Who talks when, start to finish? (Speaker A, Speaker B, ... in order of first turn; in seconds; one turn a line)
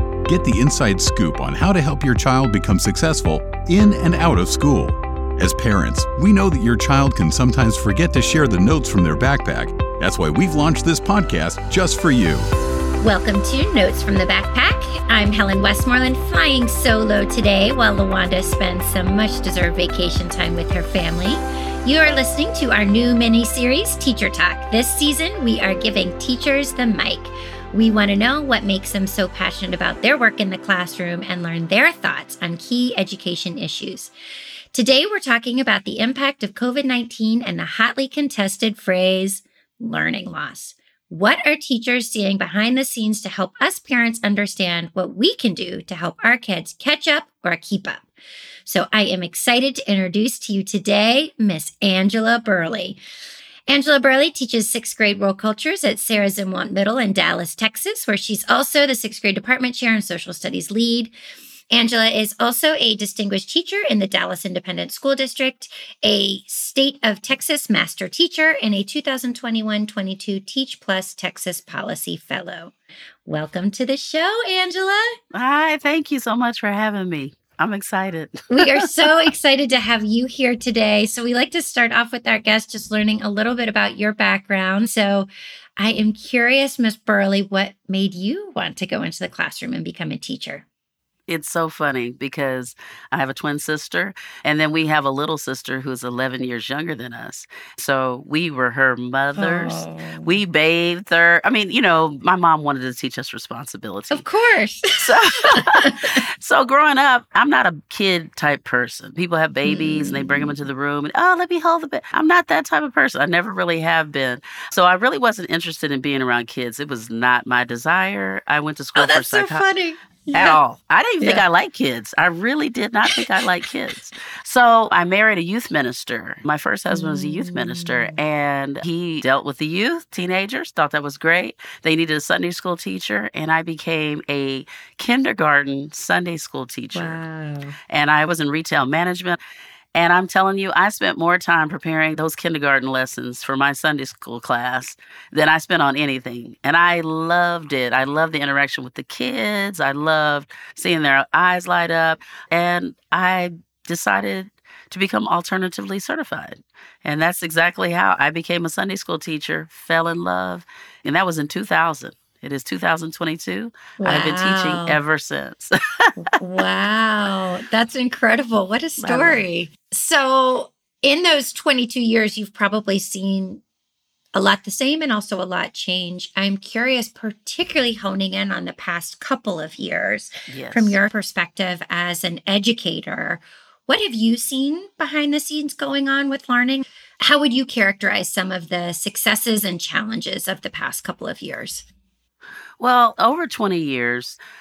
Speaker A: 0.2-12.5
Speaker B: 13.0-34.1
Speaker B: 34.7-48.1
Speaker B: 48.7-53.0
Speaker B: 53.7-61.1
Speaker B: 61.7-72.7
Speaker B: 73.2-75.1
Speaker C: 75.3-79.1
Speaker B: 78.5-90.7
Speaker C: 91.3-104.2
Speaker B: 99.4-100.3
Speaker B: 104.1-106.2
Speaker C: 105.0-105.9
Speaker C: 106.4-119.6
Speaker B: 109.7-110.5
Speaker B: 119.0-120.6
Speaker C: 120.3-137.2
Speaker B: 126.9-128.2
Speaker B: 136.9-137.8
Speaker C: 137.9-139.4
Speaker C: 139.9-165.7
Speaker B: 164.0-165.0
Speaker B: 166.2-173.6
Speaker C: 169.0-169.4
Speaker B: 174.3-191.8
Speaker C: 180.5-181.0
Speaker C: 192.8-194.4